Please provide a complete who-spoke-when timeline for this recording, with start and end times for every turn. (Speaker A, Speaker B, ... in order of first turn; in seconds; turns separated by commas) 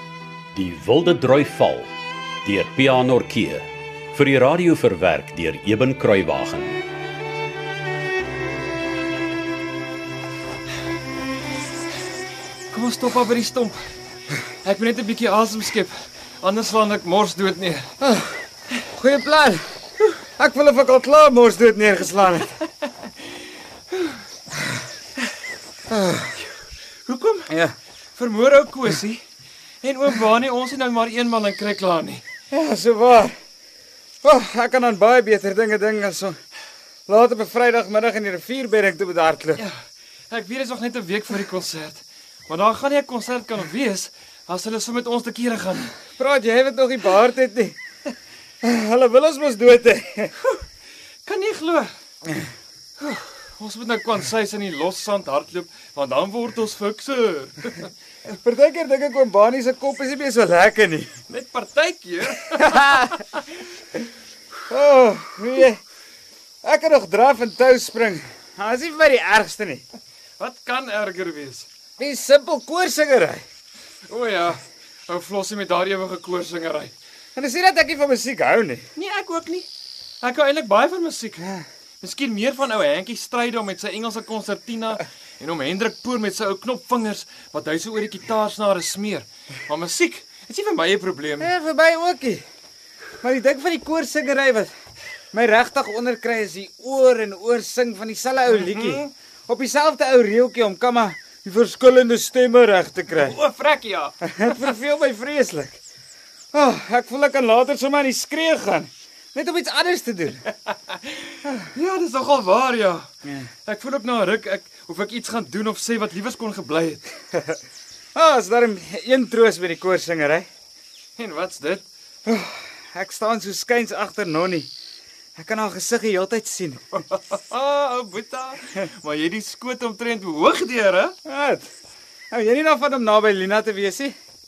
Speaker A: 0.5-1.9, Speaker A: 2.5-6.8, Speaker B: 12.7-13.8, Speaker B: 14.7-17.9, Speaker C: 18.0-19.6, Speaker C: 20.4-22.5, Speaker C: 25.9-26.3, Speaker B: 27.1-27.5, Speaker C: 27.5-27.7, Speaker B: 28.2-29.2, Speaker B: 29.8-32.2, Speaker C: 32.5-33.4, Speaker C: 34.2-36.4, Speaker C: 37.1-39.6, Speaker B: 40.3-45.9, Speaker C: 46.2-47.8, Speaker C: 48.6-50.3, Speaker B: 51.2-51.9, Speaker B: 53.0-57.9, Speaker C: 58.3-61.1, Speaker B: 61.3-63.2, Speaker C: 62.5-63.2, Speaker C: 64.7-65.8, Speaker C: 66.6-69.8, Speaker B: 70.4-71.7, Speaker C: 72.0-73.4, Speaker B: 74.1-76.9, Speaker C: 77.4-78.8, Speaker B: 79.0-79.7, Speaker B: 80.2-91.5, Speaker C: 91.4-92.4, Speaker C: 93.2-94.7, Speaker C: 95.3-103.4, Speaker B: 98.5-99.1, Speaker B: 103.1-104.2, Speaker C: 104.2-105.8, Speaker C: 106.5-110.5, Speaker B: 110.9-113.1, Speaker B: 113.7-117.0, Speaker C: 118.2-120.5, Speaker B: 121.2-121.8, Speaker C: 122.3-124.7, Speaker C: 125.4-127.0, Speaker B: 127.1-131.2, Speaker C: 131.3-131.7, Speaker C: 132.3-134.2